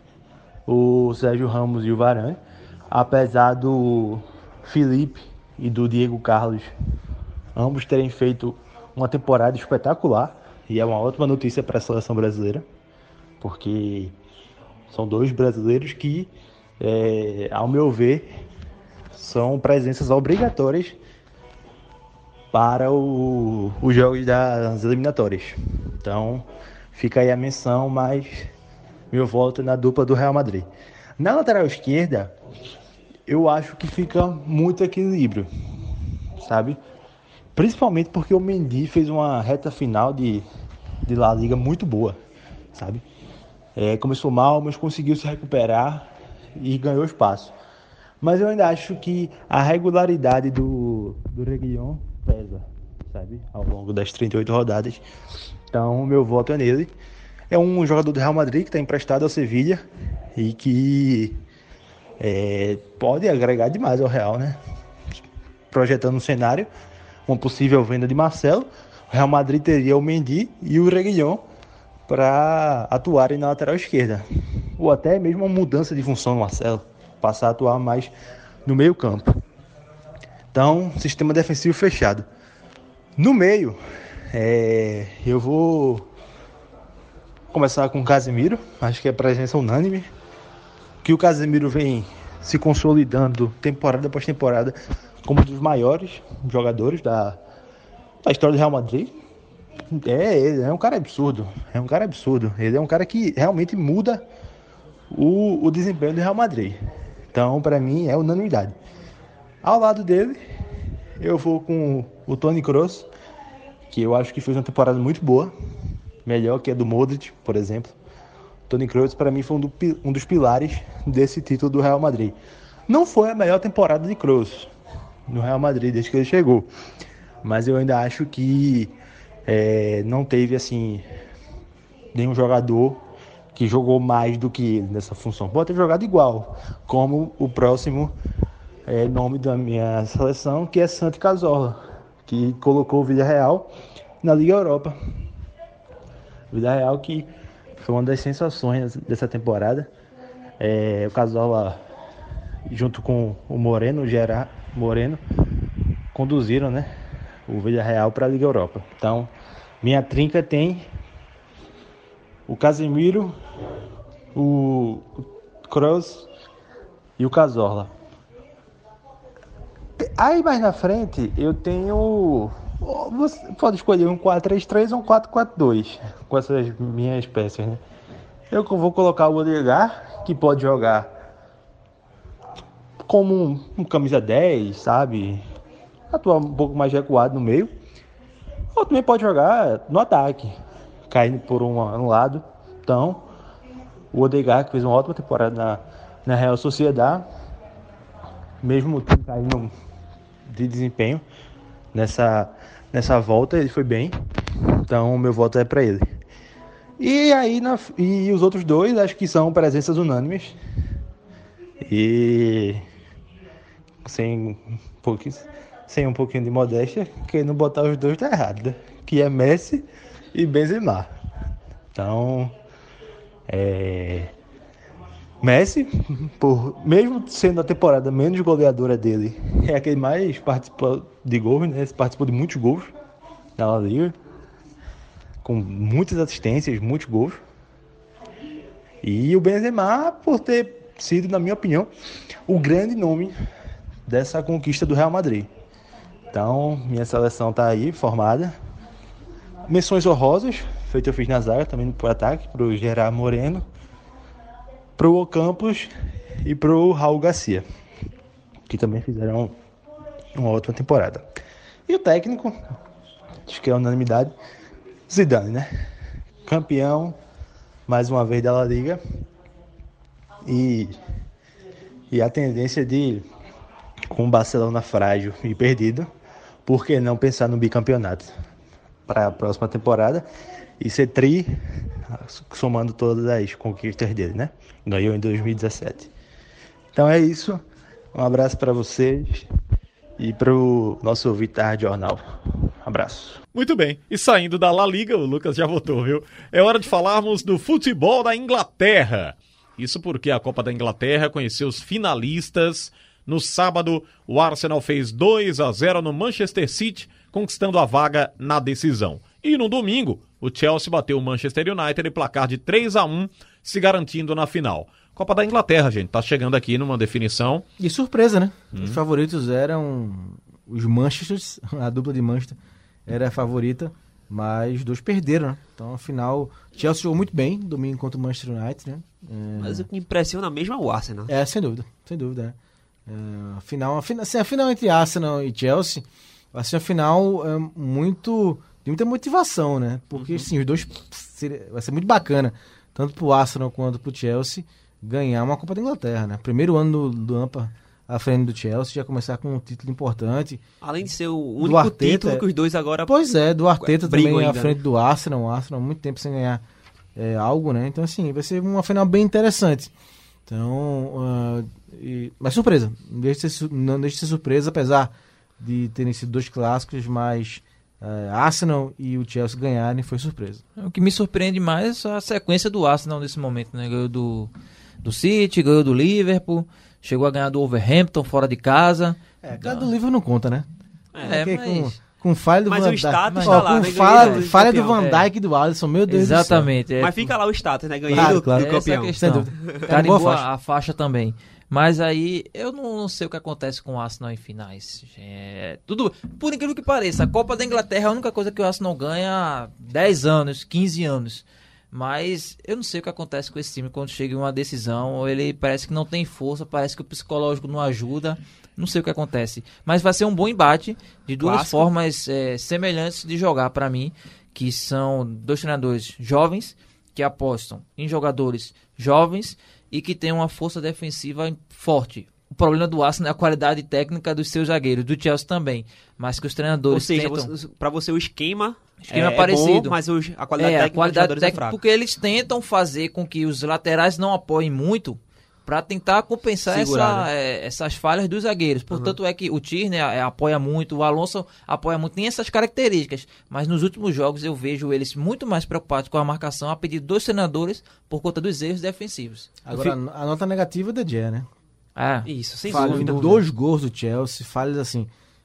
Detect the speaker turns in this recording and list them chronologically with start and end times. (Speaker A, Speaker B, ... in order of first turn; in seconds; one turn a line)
Speaker A: 0.7-2.4
Speaker A: 2.9-6.7
Speaker A: 7.6-12.7
Speaker A: 13.4-14.2
Speaker A: 14.9-18.3
Speaker A: 19.1-21.0
Speaker A: 22.5-28.5
Speaker A: 29.1-30.7
Speaker A: 31.2-32.3
Speaker A: 33.3-35.5
Speaker A: 36.4-36.8
Speaker A: 37.6-40.5
Speaker A: 41.1-42.2
Speaker A: 42.7-43.0
Speaker A: 43.8-47.5
Speaker A: 48.2-55.0
Speaker A: 55.7-56.9
Speaker A: 57.5-59.8
Speaker A: 60.4-61.4
Speaker A: 62.2-64.6
Speaker A: 65.7-66.7
Speaker A: 67.3-71.4
Speaker A: 72.1-74.2
Speaker A: 74.8-78.1
Speaker A: 78.7-79.3
Speaker A: 80.5-82.2
Speaker A: 83.2-83.8
Speaker A: 84.3-86.1
Speaker A: 87.5-90.1
Speaker A: 91.0-97.4
Speaker A: 98.2-99.1
Speaker A: 99.9-104.3
Speaker A: 105.1-106.8
Speaker A: 107.3-108.8
Speaker A: 109.6-110.4
Speaker A: 111.2-113.1
Speaker A: 113.9-115.5
Speaker A: 116.3-118.0
Speaker A: 118.7-122.3
Speaker A: 122.9-124.7
Speaker A: 125.3-126.7
Speaker A: 127.4-128.9
Speaker A: 129.5-131.0
Speaker A: 132.1-133.0
Speaker A: 133.5-138.1
Speaker A: 138.9-143.7
Speaker A: 144.2-144.9
Speaker A: 146.5-147.3
Speaker A: 147.8-149.9
Speaker A: 150.6-151.8
Speaker A: 152.7-155.2
Speaker A: 156.1-156.9
Speaker A: 157.5-159.3
Speaker A: 159.8-160.8
Speaker A: 162.5-163.3
Speaker A: 164.3-165.1
Speaker A: 165.7-166.3
Speaker A: 167.2-167.9
Speaker A: 170.0-177.8
Speaker A: 178.5-181.1
Speaker A: 183.1-185.4
Speaker A: 186.1-187.7
Speaker A: 188.8-190.6
Speaker A: 191.1-193.2
Speaker A: 194.1-197.2
Speaker A: 198.6-199.7
Speaker A: 200.5-201.2
Speaker A: 201.9-204.2
Speaker A: 204.9-206.0
Speaker A: 207.0-210.6
Speaker A: 211.9-212.8
Speaker A: 214.0-221.1
Speaker A: 221.9-222.5
Speaker A: 223.5-224.3
Speaker A: 225.4-232.9
Speaker A: 233.6-234.2
Speaker A: 235.4-237.4
Speaker A: 239.0-241.9
Speaker A: 242.5-243.3
Speaker A: 244.1-245.5
Speaker A: 246.3-248.6
Speaker A: 249.7-253.6
Speaker A: 255.0-255.9
Speaker A: 256.4-257.6
Speaker A: 258.7-259.5
Speaker A: 260.4-261.2
Speaker A: 261.9-262.6
Speaker A: 263.5-264.3
Speaker A: 265.1-265.7
Speaker A: 266.5-267.2
Speaker A: 267.9-269.0
Speaker A: 270.5-271.0
Speaker A: 272.1-273.2
Speaker A: 274.1-276.1
Speaker A: 276.7-278.3
Speaker A: 279.1-280.2
Speaker A: 280.8-281.5
Speaker A: 282.1-286.1
Speaker A: 286.9-287.6
Speaker A: 288.1-289.4
Speaker A: 290.2-292.2
Speaker A: 292.9-293.4
Speaker B: 293.5-317.6
Speaker C: 317.8-329.9
Speaker D: 329.6-331.3
Speaker C: 331.3-332.6
Speaker C: 333.1-350.6
Speaker D: 340.1-340.5
Speaker D: 350.8-353.2
Speaker C: 351.6-352.4
Speaker C: 353.1-356.6
Speaker D: 353.8-354.8
Speaker C: 357.1-359.9
Speaker C: 360.5-370.6
Speaker E: 370.8-374.5
Speaker E: 375.0-379.9
Speaker C: 379.4-380.7
Speaker D: 381.1-381.4
Speaker E: 381.2-382.0
Speaker C: 381.3-386.7
Speaker D: 382.7-385.0
Speaker E: 383.3-385.2
Speaker E: 386.1-387.3
Speaker D: 387.0-389.8
Speaker C: 388.1-390.5
Speaker E: 388.1-427.5
Speaker D: 411.4-411.9
Speaker D: 426.9-431.8
Speaker E: 429.0-429.9
Speaker E: 430.6-449.9
Speaker D: 436.7-437.3
Speaker D: 438.9-439.2
Speaker C: 449.6-451.5
Speaker E: 452.0-453.4
Speaker D: 452.3-453.4
Speaker C: 452.7-455.1